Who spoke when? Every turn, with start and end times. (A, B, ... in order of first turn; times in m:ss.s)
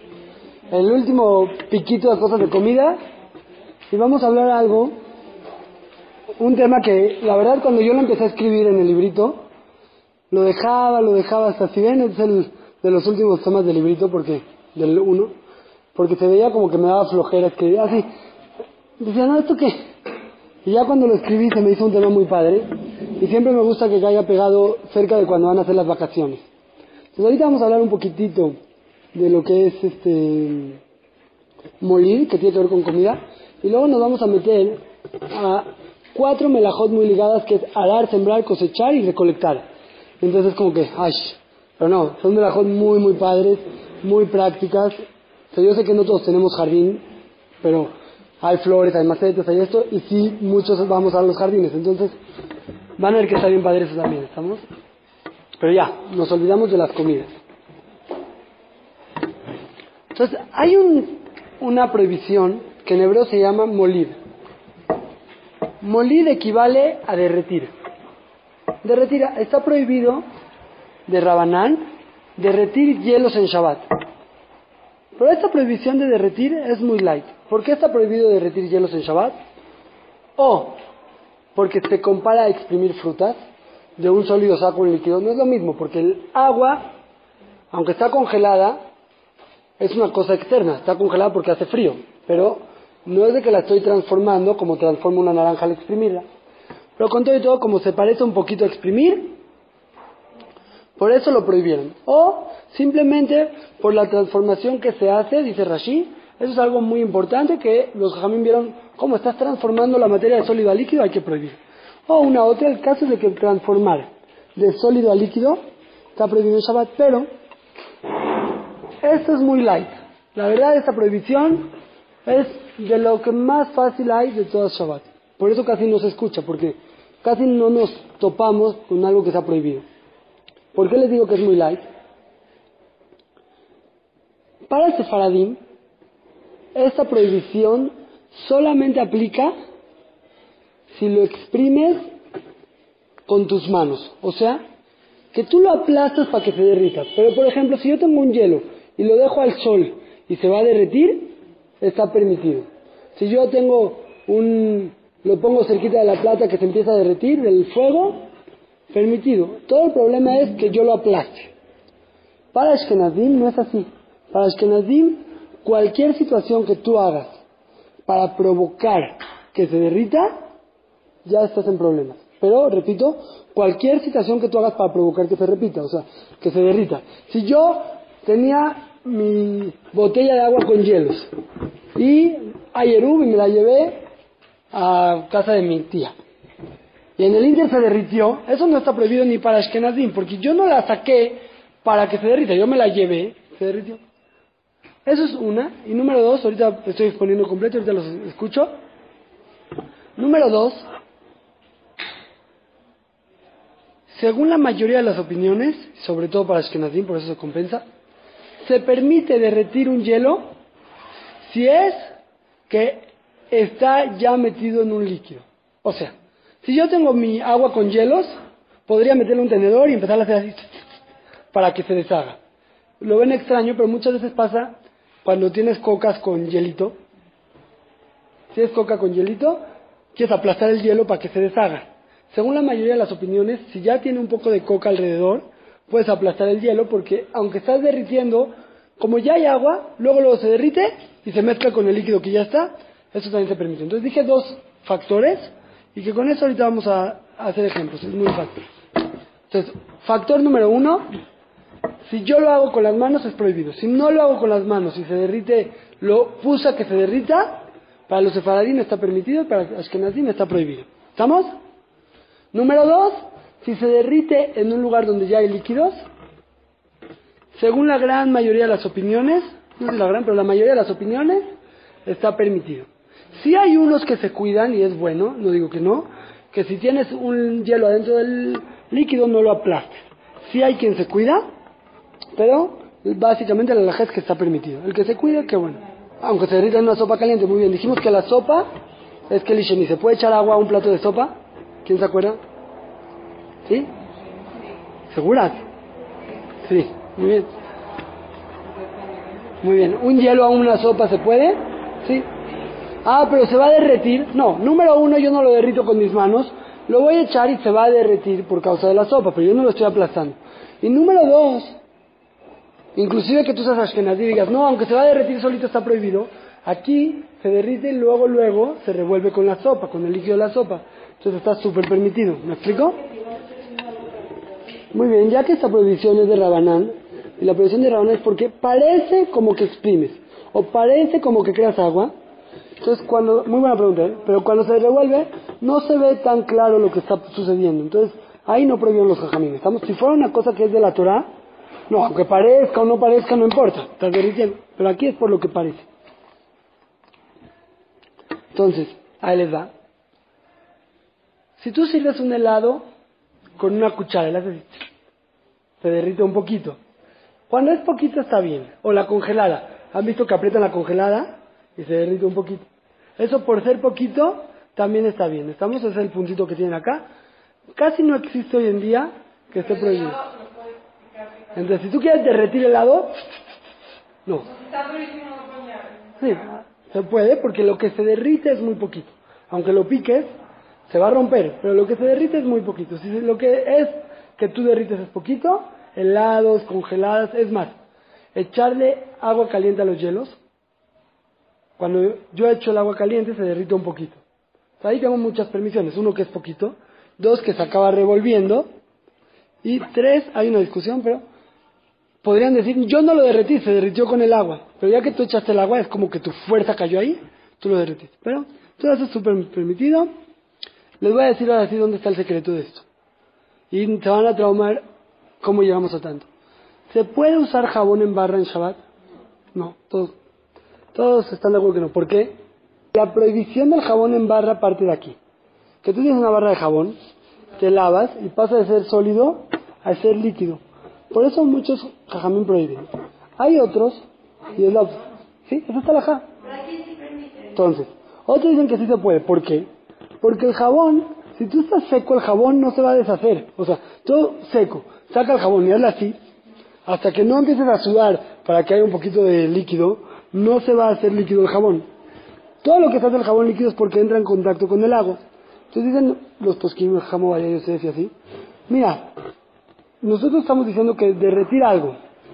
0:00.7-0:03.0 A
0:03.9-0:04.9 A
0:06.4-0:09.4 A
0:10.3-0:15.3 A
0:16.0-0:18.1 A
0:19.0-0:19.8 A
0:20.6-0:22.7 A
0:23.2-0:26.4 A
0:27.2-0:28.6 A
0:29.1-0:30.8 A
0:31.8-0:39.6 A
0:40.2-0:45.0 A
0:45.5-0:47.0 A
0:47.6-0:52.2 A
0:53.0-0:54.6 A
0:55.6-0:57.3 A
1:00.1-1:04.2 A
1:05.8-1:07.7 A
1:08.8-1:10.2 A
1:11.1-1:11.8 A
1:12.4-1:13.8 A
1:15.2-1:19.3 A
1:20.4-1:20.8 A
1:21.6-1:23.4 A
1:24.0-1:26.9 A
1:27.7-1:28.8 A
1:29.8-1:36.3 A
1:37.0-1:39.4 A
1:41.0-1:55.6 A
1:56.2-1:57.3 A
1:59.0-2:01.7 A
2:02.3-2:09.8 A
2:10.7-2:11.9 A
2:14.7-2:15.6 A
2:16.8-2:19.5 A
2:20.9-2:22.1 A
2:23.3-2:24.6 A
2:25.3-2:38.3 A
2:38.9-2:41.5 A
2:42.5-2:47.4 A
2:48.1-2:50.3 A
2:51.2-3:01.3 A
3:02.0-3:04.1 A
3:04.7-3:06.2 A
3:07.2-3:14.0 A
3:15.0-3:18.7 A
3:20.2-3:20.9 A
3:24.1-3:27.8 A
3:28.6-3:30.5 A
3:31.4-3:32.1 A
3:32.7-3:38.4 A
3:38.9-3:40.8 A
3:41.5-3:42.4 A
3:43.0-3:47.0 A
3:48.5-3:49.6 A
3:50.1-4:08.6 A
4:09.5-4:11.0 A
4:12.0-4:21.5 A
4:22.5-4:26.0 A
4:27.5-4:31.4 A
4:32.1-4:41.4 A
4:42.4-4:48.7 A
4:49.3-4:52.4 A
4:55.1-4:55.6 A
4:56.6-4:57.5 A
4:59.6-5:02.3 A
5:03.0-5:11.8 A
5:13.0-5:23.0 A
5:24.9-5:32.1 A
5:32.8-5:41.3 A
5:41.9-5:45.9 A
5:48.5-5:49.7 A
5:51.6-5:52.8 A
5:53.6-5:54.8 A
5:55.8-5:56.8 A
5:57.5-6:02.7 A
6:03.2-6:07.0 A
6:07.8-6:10.2 A
6:11.5-6:13.1 A
6:16.2-6:20.3 A
6:20.9-6:27.8 A
6:28.3-6:30.4 A
6:31.8-6:34.2 A
6:34.8-6:38.7 A
6:39.6-6:41.2 A
6:42.2-6:50.1 A
6:51.0-6:52.9 A
6:53.7-6:54.8 A
6:55.4-6:56.3 A
6:56.9-6:58.8 A
6:59.5-7:00.2 A
7:00.9-7:02.3 A
7:02.9-7:05.2 A
7:05.8-7:07.0 A
7:07.6-7:16.3 A
7:17.5-7:19.7 A
7:20.2-7:26.2 A
7:26.9-7:31.9 A
7:32.6-7:35.2 A
7:35.7-7:38.1 A
7:38.7-7:39.1 A
7:40.0-7:42.0 A